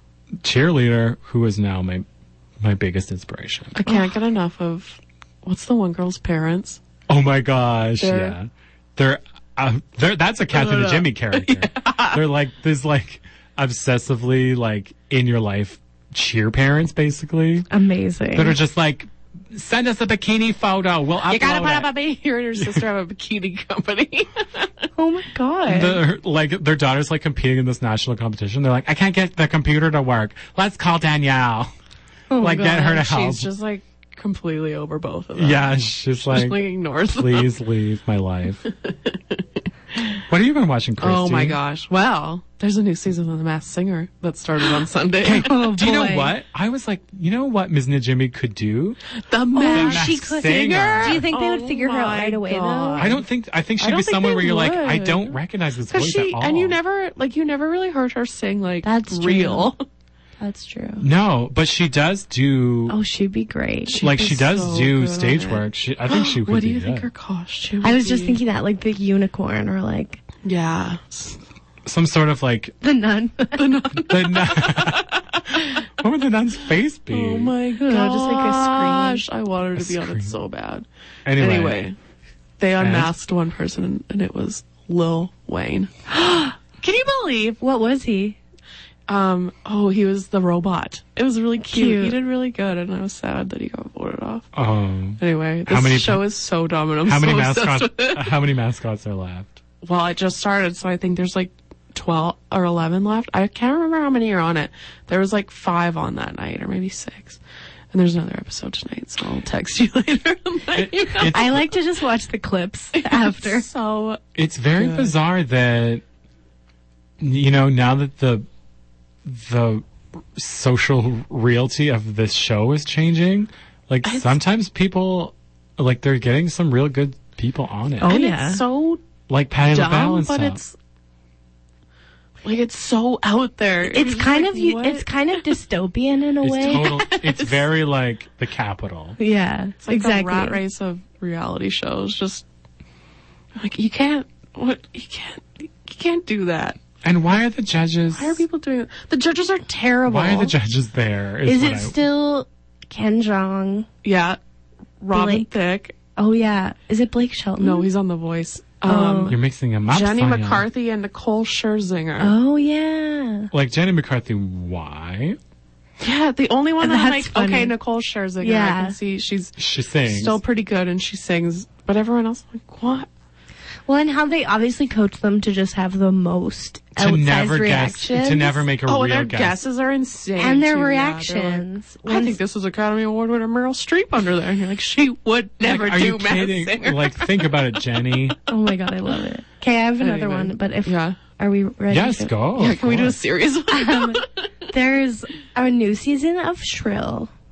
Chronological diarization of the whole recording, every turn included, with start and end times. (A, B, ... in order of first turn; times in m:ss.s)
0:00.4-0:02.0 A
0:02.6-0:03.8 A
0:03.8-0:06.8 B
0:07.1-0:17.7 A
0:08.0-0:08.4 B
0:10.5-0:12.2 B
0:17.7-0:18.6 C
0:18.3-0:21.9 A
0:21.3-0:24.7 B
0:22.6-0:22.9 A
0:25.0-0:26.0 C
0:25.7-0:31.7 A
0:32.3-0:32.7 C
0:32.4-0:37.5 B
0:32.4-0:33.5 A
0:35.4-0:38.6 A
0:38.7-0:39.4 B
0:39.9-0:40.2 B
0:40.3-0:41.6 A
0:41.0-0:45.5 B
0:45.2-0:49.0 A
0:45.4-0:46.3 C
0:49.3-0:53.2 B
0:49.6-0:53.1 C
0:49.7-0:51.2 A
0:53.0-0:56.8 A
0:53.8-0:55.4 B
0:55.9-0:59.8 B
0:58.8-0:59.7 C
1:00.4-1:01.1 C
1:01.0-1:03.0 A
1:02.9-1:04.0 C
1:03.9-1:08.4 B
1:04.0-1:07.1 A
1:07.8-1:10.2 C
1:10.4-1:11.4 B
1:11.8-1:12.8 A
1:12.8-1:14.0 C
1:13.6-1:15.8 B
1:14.1-1:15.2 A
1:15.8-1:17.5 A
1:17.1-1:20.8 B
1:17.8-1:19.2 C
1:19.8-1:20.4 A
1:21.3-1:21.8 A
1:21.4-1:22.0 B
1:22.6-1:25.9 B
1:22.8-1:23.1 A
1:26.1-1:26.5 C
1:26.8-1:27.6 B
1:27.6-1:28.4 C
1:29.1-1:34.5 B
1:31.7-1:32.2 C
1:34.5-1:36.3 A
1:35.2-1:38.3 B
1:37.0-1:39.6 A
1:39.8-1:47.4 B
1:47.9-1:51.7 B
1:50.7-1:51.6 A
1:51.2-1:53.6 C
1:53.0-1:54.2 B
1:54.4-1:56.0 A
1:54.8-1:55.1 B
1:57.2-1:58.5 A
1:59.2-2:08.2 A
2:04.0-2:04.4 B
2:08.0-2:08.6 C
2:08.0-2:09.0 B
2:09.3-2:10.6 A
2:09.6-2:10.7 B
2:12.4-2:15.5 B
2:13.9-2:16.9 C
2:16.4-2:19.2 A
2:16.7-2:17.6 B
2:19.2-2:20.6 C
2:19.8-2:22.4 B
2:23.6-2:26.8 B
2:27.0-2:28.4 A
2:28.1-2:30.5 B
2:30.1-2:32.0 A
2:31.4-2:33.9 C
2:34.0-2:34.4 B
2:35.0-2:36.0 B
2:35.1-2:35.5 C
2:36.2-2:37.9 C
2:37.6-2:42.3 B
2:38.8-2:39.4 C
2:39.3-2:40.7 A
2:42.2-2:43.5 C
2:43.5-2:45.4 A
2:46.0-2:53.1 B
2:46.8-2:47.7 C
2:48.4-2:49.0 C
2:49.6-2:50.4 A
2:53.9-2:58.6 C
2:57.0-2:59.6 A
2:58.9-3:07.5 B
3:00.4-3:02.4 C
3:05.6-3:08.4 A
3:08.5-3:12.3 C
3:10.0-3:11.2 B
3:11.9-3:13.2 A
3:12.6-3:14.3 B
3:13.7-3:17.3 C